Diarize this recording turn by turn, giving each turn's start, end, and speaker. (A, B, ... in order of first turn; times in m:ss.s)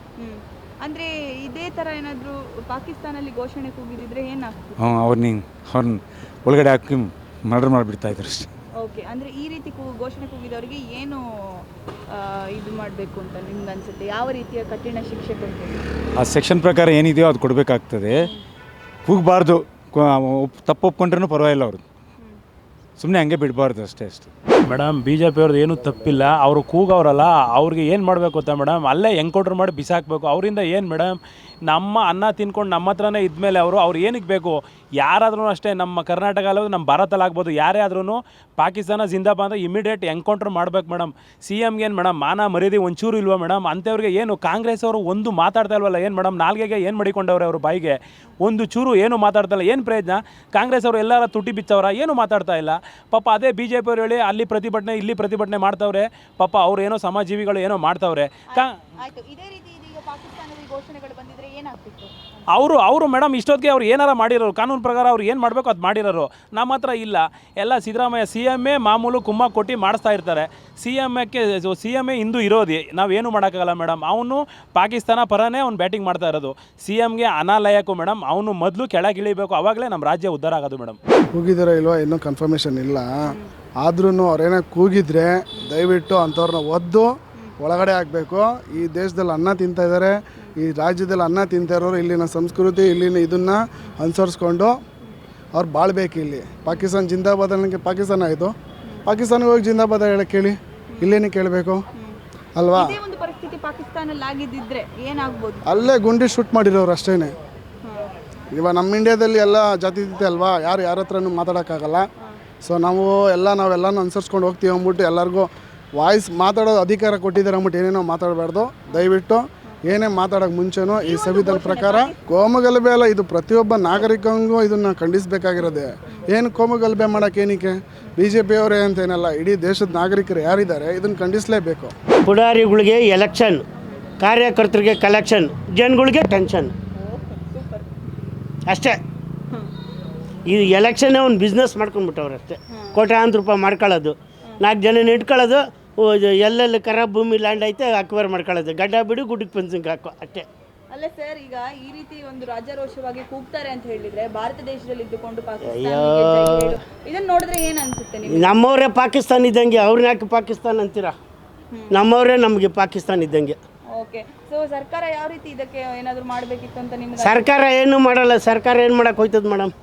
0:00.2-0:04.8 A
0:04.8-0:08.5 B
0:08.8-0:15.8 A
0:16.2-0:18.3 B
0:19.1-0:21.8 B
0:23.0-0:24.3 B
0:24.7-0:31.2 C
0:31.7-0:58.7 C
0:58.5-1:02.1 A
1:02.6-1:21.0 C
1:21.3-1:23.1 D
1:23.8-1:34.8 D
1:35.6-1:38.5 D
1:39.0-1:41.8 D
1:40.9-1:41.2 A
1:42.6-1:43.0 D
1:42.8-1:45.9 A
1:45.7-1:47.3 D
1:48.6-1:52.1 D
1:52.6-2:11.9 D
2:01.1-2:02.2 A
2:12.2-2:13.6 E
2:14.2-2:16.7 E
2:17.0-2:17.9 A
2:18.7-2:19.0 E
2:20.5-2:30.5 E
2:30.9-2:38.6 A
2:35.6-2:36.8 E
2:38.3-2:41.1 E
2:41.9-2:43.6 E
2:43.9-2:47.5 A
2:47.2-2:49.7 E